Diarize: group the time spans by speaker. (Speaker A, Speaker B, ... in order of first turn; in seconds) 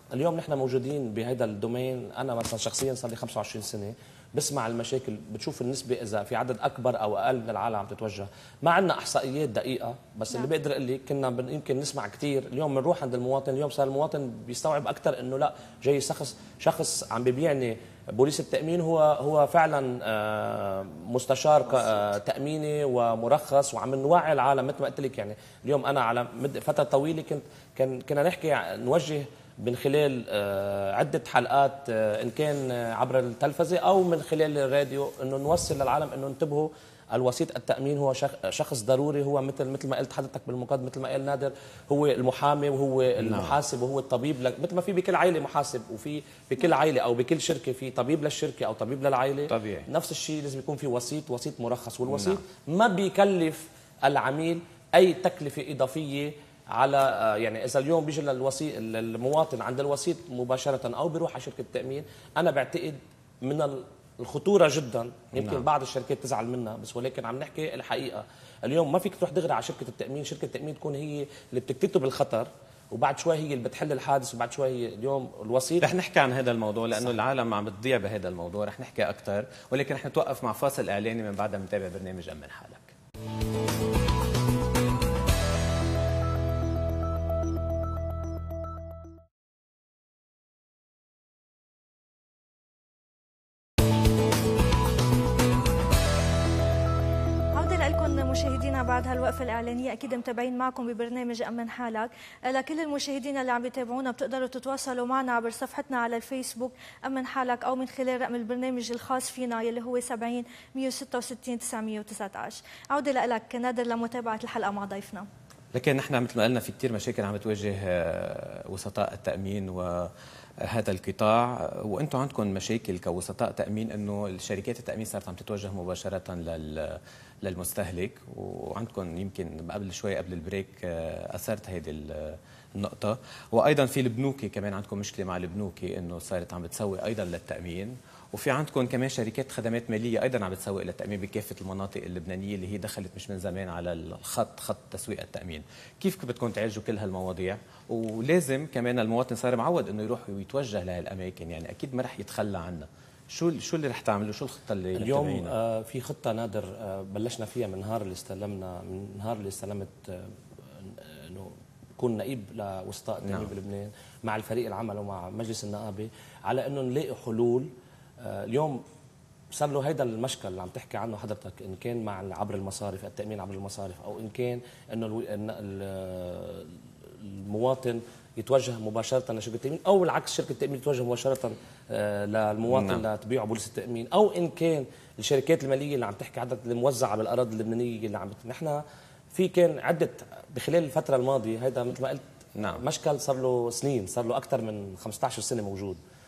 Speaker A: 0.1-75.9, 155.0-168.8, 169.5-188.8, 189.3-192.2, 192.8-196.0
Speaker B: 43.2-43.6, 49.5-49.9, 52.1-52.4, 65.4-65.6, 75.8-82.9, 115.7-120.1, 120.6-155.5, 163.2-163.5, 182.7-183.0, 192.6-192.8
Speaker C: 97.5-115.3